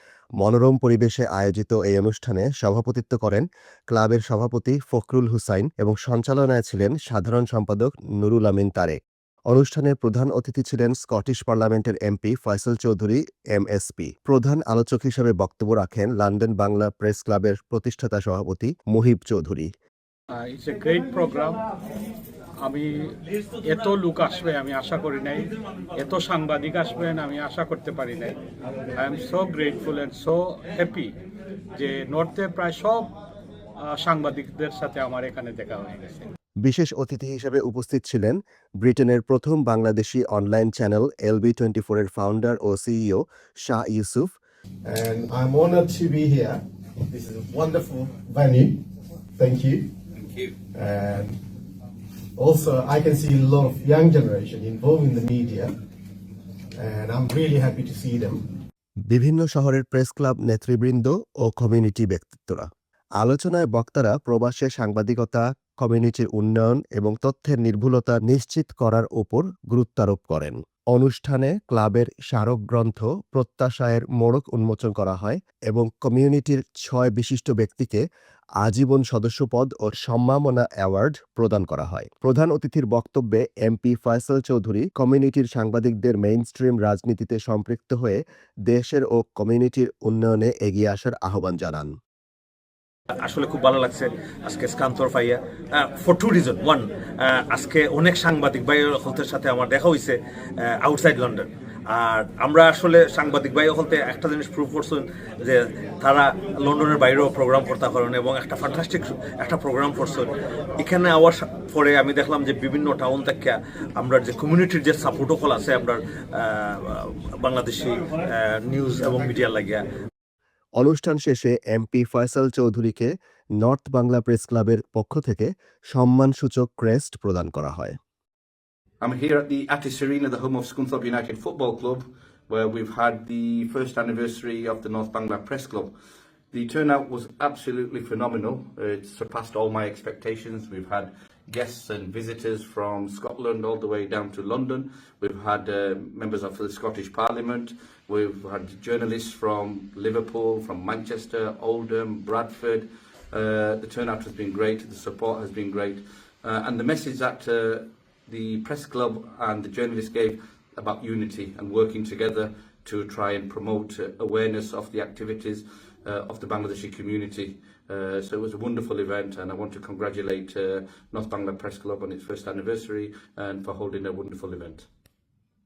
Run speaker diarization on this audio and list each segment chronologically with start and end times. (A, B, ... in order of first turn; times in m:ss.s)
0:00.4-0:09.0 A
0:09.5-0:19.7 A
0:20.3-0:21.6 B
0:22.6-0:28.4 B
0:28.9-0:31.1 B
0:31.8-0:33.1 B
0:33.8-0:36.3 B
0:36.6-0:44.3 A
0:44.8-0:48.8 C
0:49.4-0:49.9 C
0:50.7-0:51.4 C
0:52.4-0:55.7 C
0:56.8-0:58.4 C
0:59.1-1:18.0 A
1:18.6-1:32.0 A
1:33.2-1:59.8 D
2:00.8-2:08.0 A
2:09.0-2:15.9 E
2:16.5-2:54.9 E